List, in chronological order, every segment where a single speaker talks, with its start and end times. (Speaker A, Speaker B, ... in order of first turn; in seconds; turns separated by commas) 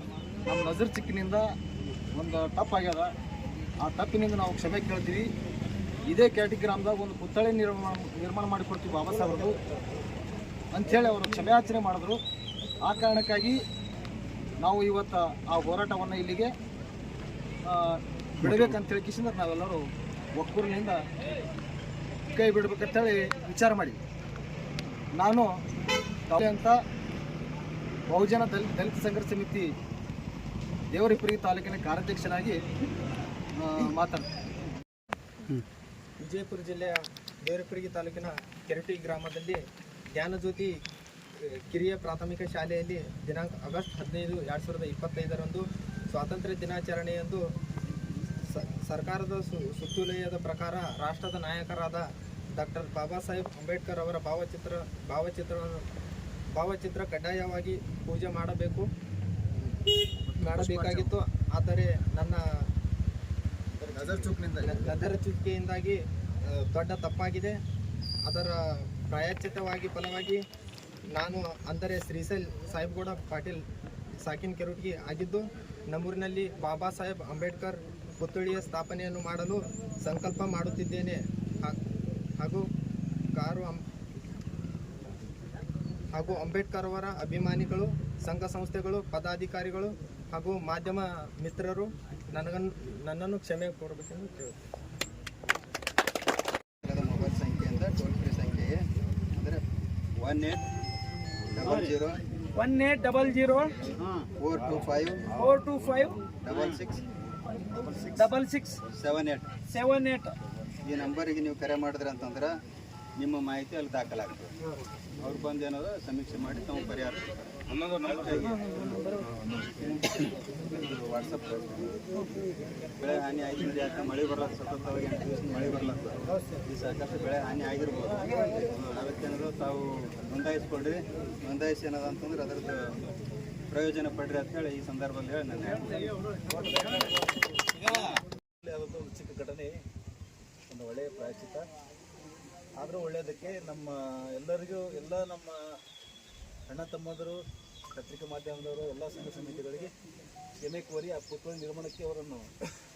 Speaker A: 0.5-1.5, Speaker A: 2.1-3.1, Speaker A: 3.8-5.3, Speaker A: 6.1-9.6, Speaker A: 10.7-12.2, Speaker A: 12.8-13.6, Speaker A: 14.6-16.5, Speaker A: 17.6-21.0, Speaker A: 22.3-24.0, Speaker A: 25.2-25.5, Speaker A: 26.3-26.8, Speaker A: 28.1-29.7, Speaker A: 30.9-32.6, Speaker A: 33.5-34.2, Speaker B: 36.2-39.6, Speaker B: 40.1-40.7, Speaker B: 41.4-47.4, Speaker B: 48.5-55.8, Speaker B: 56.5-58.9, Speaker A: 60.4-61.1, Speaker B: 60.4-62.4, Speaker A: 63.8-65.0, Speaker B: 64.6-67.6, Speaker B: 68.3-70.4, Speaker B: 71.1-73.6, Speaker B: 74.2-81.8, Speaker B: 82.4-82.6, Speaker B: 83.3-83.8, Speaker B: 86.1-94.5, Speaker C: 96.8-98.8, Speaker C: 99.3-99.6, Speaker C: 100.2-100.6, Speaker C: 101.5-102.2, Speaker D: 102.5-103.7, Speaker C: 104.0-105.3, Speaker D: 105.4-106.2, Speaker C: 106.4-107.0, Speaker D: 108.2-108.8, Speaker C: 108.9-109.5, Speaker D: 109.7-110.3, Speaker C: 110.8-112.5, Speaker C: 113.2-114.5, Speaker C: 115.2-119.0, Speaker C: 119.8-122.0, Speaker C: 123.0-132.8, Speaker C: 133.7-135.9, Speaker E: 138.7-139.7, Speaker E: 140.7-141.6, Speaker E: 142.8-145.5, Speaker E: 146.7-147.4, Speaker E: 148.0-149.9, Speaker E: 150.6-152.5